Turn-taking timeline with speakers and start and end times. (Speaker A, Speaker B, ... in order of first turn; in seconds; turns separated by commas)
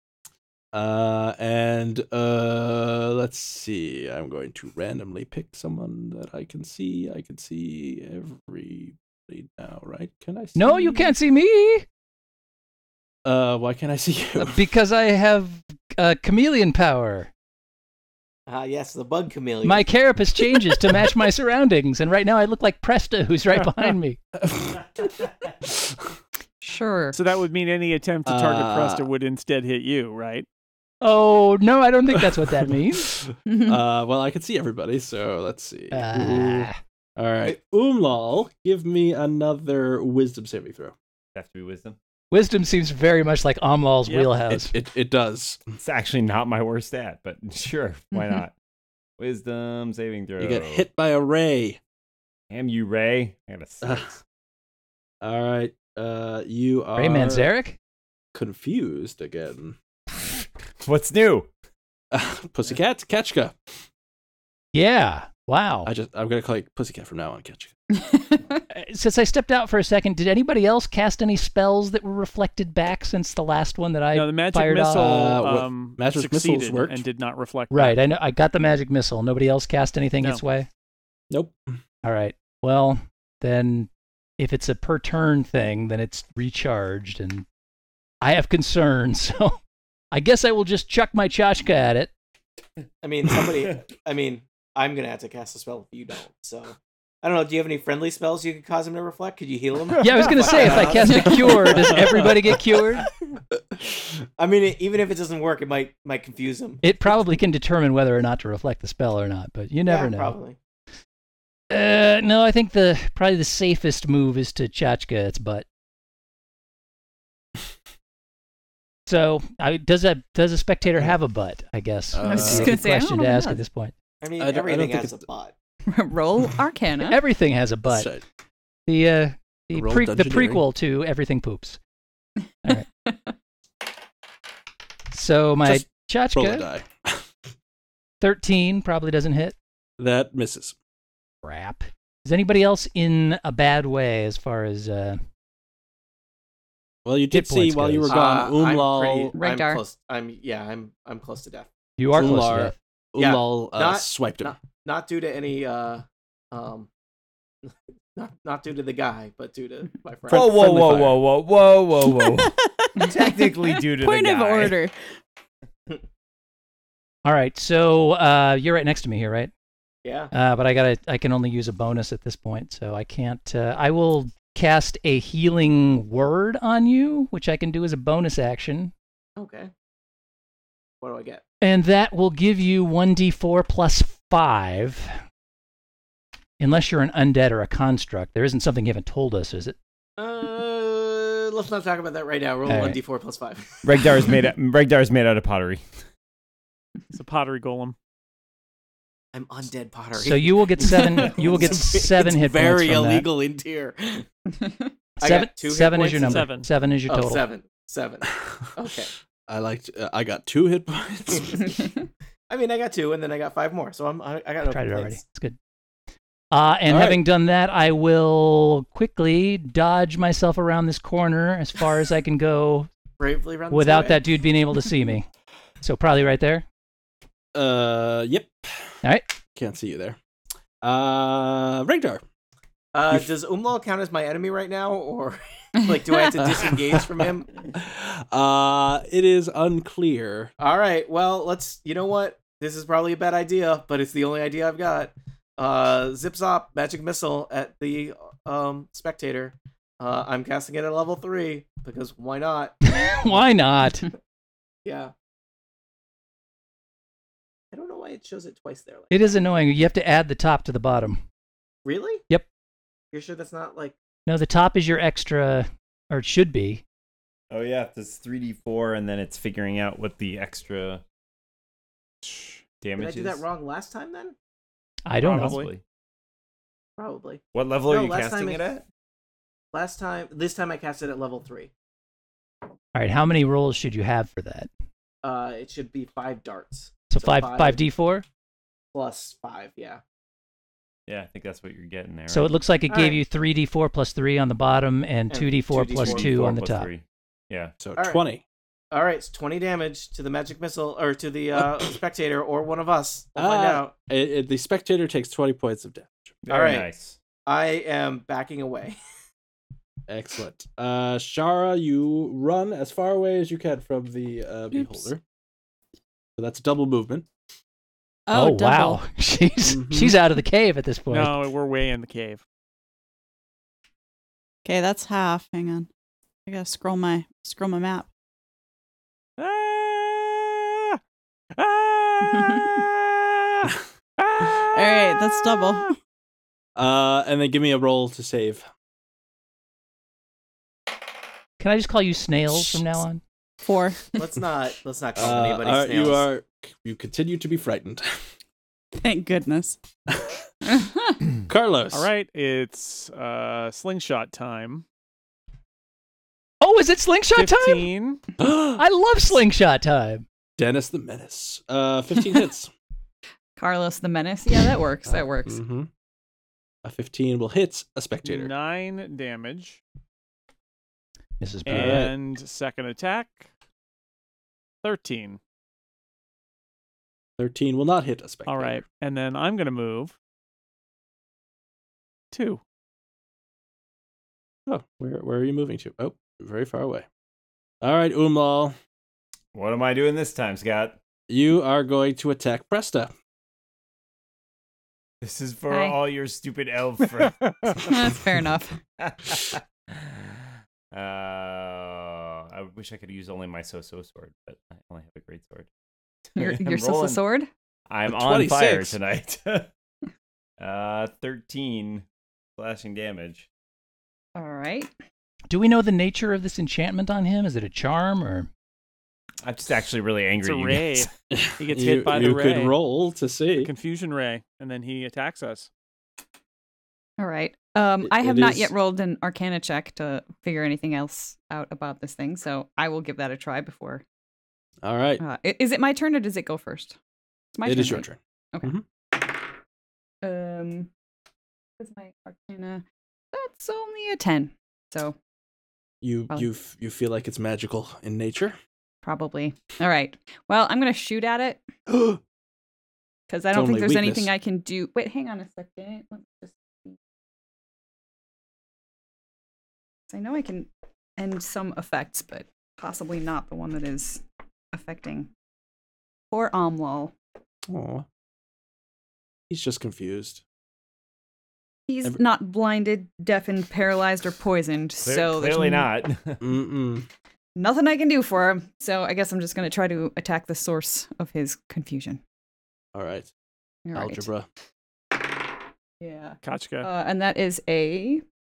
Speaker A: 0.7-10.7, Speaker B: 10.5-11.8, Speaker A: 13.2-14.6, Speaker B: 14.4-17.3, Speaker C: 18.5-19.9, Speaker B: 19.6-24.2, Speaker A: 24.4-24.8, Speaker A: 25.6-26.1, Speaker D: 26.6-27.1, Speaker E: 27.1-30.4, Speaker A: 28.2-29.1, Speaker B: 31.0-33.1, Speaker A: 32.9-40.9, Speaker D: 33.5-33.8, Speaker B: 35.9-36.8, Speaker F: 41.3-42.0, Speaker B: 42.3-44.7, Speaker E: 44.0-44.3, Speaker A: 44.5-45.6, Speaker F: 45.8-48.5, Speaker D: 48.1-48.4, Speaker F: 49.2-50.8, Speaker A: 50.4-51.8, Speaker F: 52.5-54.2, Speaker A: 53.8-54.1, Speaker A: 55.2-57.5, Speaker B: 57.0-57.8, Speaker A: 58.3-59.8, Speaker F: 60.8-61.5, Speaker A: 62.1-63.5, Speaker B: 64.7-65.9, Speaker A: 65.8-67.7, Speaker D: 68.0-68.6, Speaker B: 68.7-75.1, Speaker E: 74.1-78.0, Speaker A: 74.9-77.0, Speaker B: 77.7-80.7, Speaker A: 81.3-81.7, Speaker B: 82.0-87.4, Speaker B: 88.2-89.6, Speaker B: 90.1-92.1, Speaker C: 93.0-102.1, Speaker B: 100.0-103.1, Speaker D: 101.0-101.4, Speaker A: 101.5-102.5, Speaker C: 104.4-106.8, Speaker B: 106.8-110.3, Speaker C: 109.8-110.6, Speaker B: 111.7-115.6, Speaker B: 119.1-123.9, Speaker A: 122.1-122.9, Speaker D: 122.2-123.6, Speaker C: 124.2-125.5, Speaker A: 124.4-125.2, Speaker D: 125.8-127.2, Speaker B: 127.0-128.1, Speaker A: 127.9-128.2, Speaker B: 128.9-131.8, Speaker A: 129.7-130.6, Speaker D: 132.7-133.2, Speaker B: 135.1-136.7, Speaker A: 135.6-137.2, Speaker B: 138.2-139.5, Speaker A: 140.0-140.7, Speaker B: 141.4-145.2, Speaker A: 147.0-149.3, Speaker B: 147.3-148.2, Speaker C: 148.1-151.7, Speaker D: 149.3-149.8, Speaker B: 152.0-152.7, Speaker A: 152.1-154.5, Speaker C: 153.2-156.9, Speaker C: 157.7-160.7, Speaker F: 160.3-164.8, Speaker G: 162.1-164.9, Speaker B: 167.2-169.5, Speaker C: 170.0-170.3, Speaker B: 170.3-178.9, Speaker C: 179.4-179.7, Speaker C: 181.0-181.4, Speaker B: 181.6-185.2, Speaker B: 186.6-189.8, Speaker C: 190.2-194.3, Speaker B: 192.7-193.0, Speaker F: 193.8-195.8, Speaker E: 197.1-197.9, Speaker C: 199.3-204.3, Speaker B: 200.1-203.3, Speaker C: 205.2-206.5, Speaker B: 205.2-207.4, Speaker E: 206.1-206.7, Speaker C: 207.1-209.1, Speaker A: 209.5-211.8, Speaker C: 212.5-215.2, Speaker B: 214.7-215.6, Speaker B: 216.5-222.9, Speaker A: 216.9-217.2, Speaker C: 223.2-224.2, Speaker B: 223.7-225.3, Speaker B: 225.8-226.6, Speaker A: 227.5-228.6, Speaker A: 229.5-230.2, Speaker A: 230.8-232.2, Speaker C: 232.9-237.6, Speaker A: 236.4-237.0, Speaker A: 237.7-240.5, Speaker C: 240.6-253.4, Speaker B: 252.8-254.1, Speaker C: 254.8-255.1, Speaker C: 257.7-259.5, Speaker B: 259.1-261.2, Speaker C: 261.8-262.2, Speaker C: 263.1-263.9, Speaker B: 264.2-266.8, Speaker F: 267.5-271.0, Speaker E: 272.2-272.6, Speaker F: 272.8-273.4, Speaker C: 272.9-274.4, Speaker B: 275.1-275.6, Speaker E: 275.2-275.7, Speaker F: 275.4-275.8, Speaker C: 277.0-278.8, Speaker F: 277.5-278.8, Speaker C: 279.7-281.7, Speaker B: 282.9-284.7, Speaker C: 285.2-287.9, Speaker B: 287.1-288.2, Speaker C: 288.9-290.0, Speaker F: 291.1-292.5, Speaker B: 292.3-296.9, Speaker C: 292.9-293.2, Speaker C: 295.3-296.3, Speaker F: 295.9-297.7, Speaker A: 297.8-298.4, Speaker C: 297.9-298.2, Speaker C: 298.9-303.9, Speaker A: 301.5-301.9, Speaker A: 303.4-306.4, Speaker F: 306.4-307.2, Speaker C: 306.5-306.9, Speaker C: 307.4-309.0, Speaker A: 310.1-315.2, Speaker G: 314.7-315.1, Speaker A: 316.4-317.3, Speaker G: 318.3-319.0, Speaker B: 318.3-321.4, Speaker A: 319.6-320.1, Speaker E: 321.1-322.4, Speaker G: 324.6-325.9, Speaker G: 326.4-328.1, Speaker E: 329.4-331.0, Speaker E: 331.5-335.4, Speaker G: 334.7-335.9, Speaker A: 336.8-338.6, Speaker B: 341.6-343.2, Speaker G: 343.6-344.2, Speaker C: 344.2-346.3, Speaker A: 345.1-348.1, Speaker G: 349.0-349.8, Speaker A: 350.1-350.4, Speaker A: 351.5-352.1, Speaker E: 351.9-354.8, Speaker B: 356.6-357.9, Speaker E: 357.4-358.2, Speaker A: 358.4-358.8, Speaker B: 358.8-360.2, Speaker A: 360.6-362.7, Speaker D: 363.6-365.6, Speaker A: 365.1-365.9, Speaker A: 366.8-368.5, Speaker E: 368.2-369.8, Speaker B: 371.4-372.1, Speaker E: 371.6-373.5, Speaker A: 371.7-372.1, Speaker E: 374.8-375.4, Speaker A: 377.4-378.8, Speaker E: 378.4-380.1, Speaker E: 382.3-382.6, Speaker A: 384.7-387.1, Speaker A: 387.8-388.7, Speaker F: 389.5-391.0, Speaker A: 391.3-393.1, Speaker F: 395.2-397.8, Speaker D: 395.7-396.0, Speaker D: 397.8-398.8, Speaker F: 399.0-405.7, Speaker F: 406.3-407.2, Speaker D: 406.4-407.5, Speaker F: 407.9-409.7, Speaker A: 408.1-409.0, Speaker F: 410.6-412.0, Speaker F: 412.6-413.5, Speaker D: 414.4-414.9, Speaker B: 415.5-418.5, Speaker F: 419.4-421.1, Speaker E: 420.4-422.8, Speaker A: 421.3-423.7, Speaker E: 423.6-425.7, Speaker D: 427.2-434.0, Speaker A: 428.0-428.7, Speaker A: 434.8-435.2, Speaker D: 435.2-437.0, Speaker D: 437.5-438.7, Speaker A: 437.6-438.8, Speaker D: 440.2-440.9, Speaker D: 441.8-445.1, Speaker A: 446.0-448.6, Speaker D: 449.0-451.7, Speaker A: 451.9-452.2, Speaker D: 453.3-457.0, Speaker A: 453.5-454.3, Speaker D: 460.1-465.3, Speaker D: 466.3-467.1, Speaker A: 467.7-468.0, Speaker A: 469.5-470.4, Speaker D: 471.9-475.9, Speaker F: 475.0-476.4, Speaker A: 476.4-477.1, Speaker D: 477.6-482.2, Speaker A: 482.9-483.3, Speaker D: 483.9-484.3, Speaker A: 483.9-484.5, Speaker D: 486.0-488.2, Speaker E: 486.4-486.9